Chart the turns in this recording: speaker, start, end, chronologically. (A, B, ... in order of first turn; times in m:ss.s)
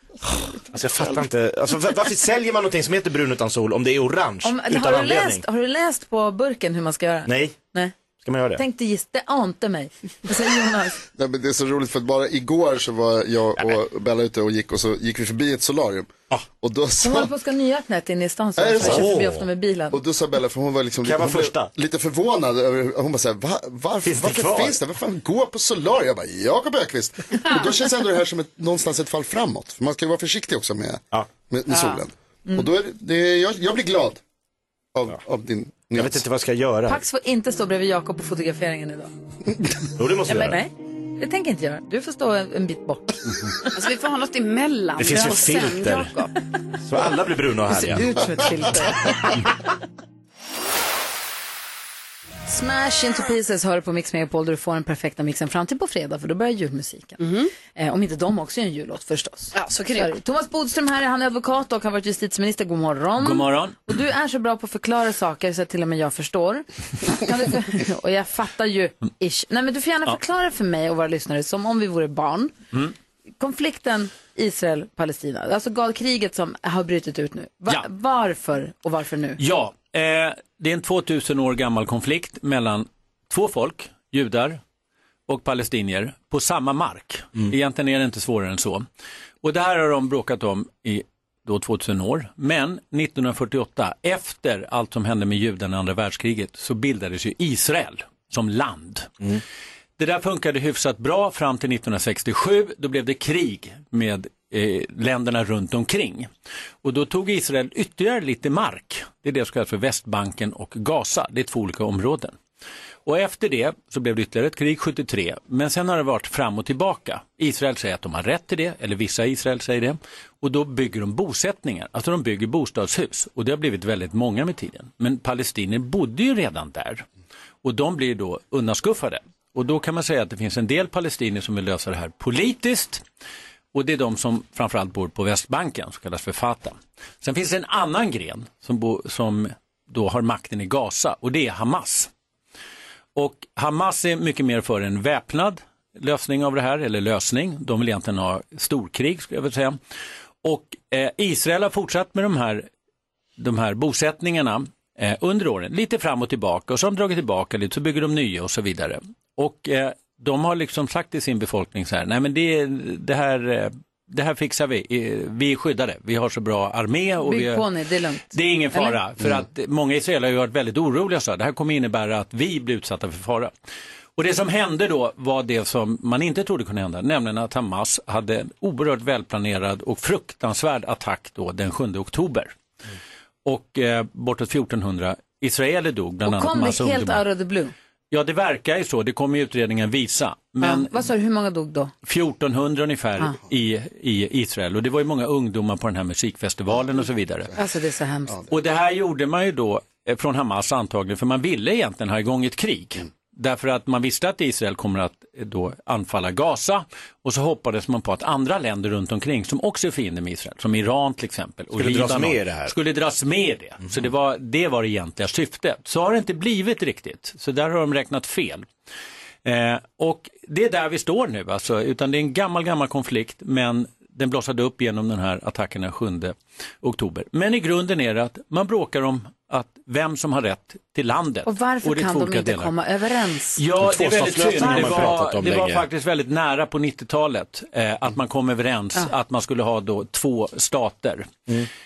0:00.6-0:05.4 A
0:04.4-0:07.9 B
0:07.3-0:07.6 A
0:08.2-0:08.6 A
0:08.6-0:11.0 B
0:11.2-0:17.3 C
0:17.0-0:20.0 B
0:18.6-0:19.2 C
0:18.8-0:19.4 A
0:19.9-0:34.2 C
0:21.0-0:21.7 A
0:24.0-0:24.8 A
0:31.7-0:32.0 D
0:34.9-0:36.2 C
0:36.0-0:37.0 A
0:36.9-0:39.1 B
0:40.0-0:40.6 A
0:40.3-0:43.7 B
0:43.8-0:46.3 D
0:45.0-0:46.1 A
0:46.8-0:48.2 A
0:47.7-0:49.4 B
0:52.5-0:57.2 B
0:57.2-0:57.5 D
0:57.7-1:12.5 B
0:59.5-1:00.1 D
1:03.2-1:03.8 E
1:13.4-1:19.4 B
1:19.4-1:24.6 E
1:25.3-1:28.9 E
1:29.4-1:39.1 E
1:40.0-1:46.3 E
1:46.8-1:52.4 E
1:53.0-2:07.0 E
2:07.6-2:13.0 E
2:13.7-2:22.1 E
2:23.2-2:29.8 E
2:30.4-2:32.7 E
2:33.4-2:47.7 E
2:47.2-2:49.0 B
2:48.3-2:53.5 E
2:54.2-3:02.5 E
3:03.4-3:07.2 E
3:06.2-3:07.7 B
3:08.1-3:11.1 E
3:10.6-3:11.9 B
3:12.0-3:17.6 E
3:17.6-3:18.4 B
3:18.5-3:38.7 E
3:31.8-3:32.7 A
3:39.4-3:52.7 E
3:51.4-3:53.6 B
3:53.6-4:01.4 E
3:53.8-3:55.8 A
3:54.6-3:55.1 B